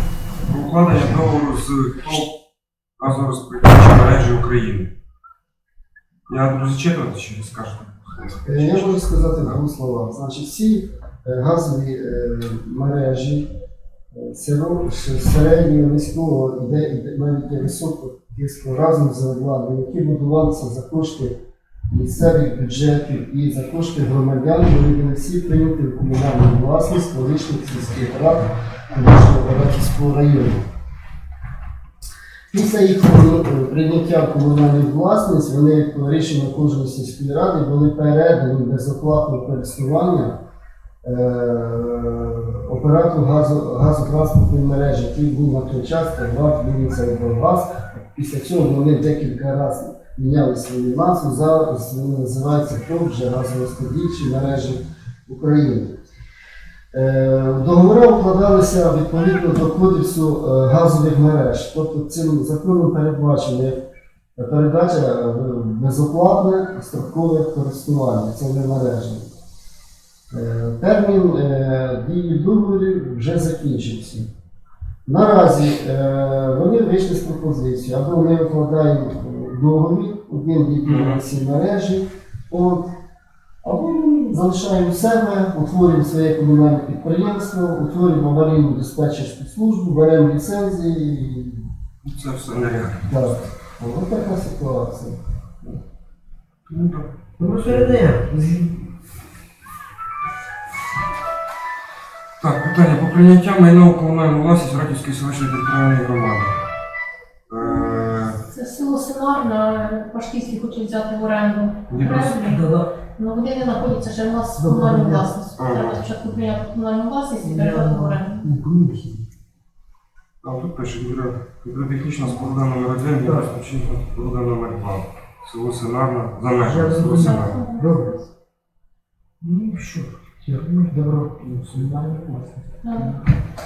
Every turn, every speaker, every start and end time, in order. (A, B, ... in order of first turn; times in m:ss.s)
0:00.5-0:02.3 A
0:03.0-0:04.9 A
0:06.3-0:09.6 A
0:08.4-0:13.5 B
0:14.1-0:21.4 B
0:21.9-0:30.6 B
0:32.5-0:40.4 B
0:41.0-0:56.0 B
0:56.9-1:03.8 B
1:04.4-1:09.3 B
1:10.3-1:14.3 B
1:15.0-1:22.9 B
1:20.8-1:21.2 A
1:23.6-1:31.6 B
1:32.0-1:33.2 A
1:33.1-1:35.8 B
1:36.7-1:38.0 A
1:37.4-1:38.8 C
1:42.4-1:46.6 A
1:47.5-1:48.4 A
1:48.5-1:52.6 D
1:51.9-1:52.4 A
1:52.4-1:52.9 C
1:53.1-1:58.4 D
1:54.6-1:55.3 C
1:55.6-1:56.0 A
1:57.4-1:59.2 C
2:00.4-2:07.6 A
2:06.6-2:08.1 C
2:07.0-2:08.3 D
2:09.4-2:13.2 C
2:12.8-2:13.2 D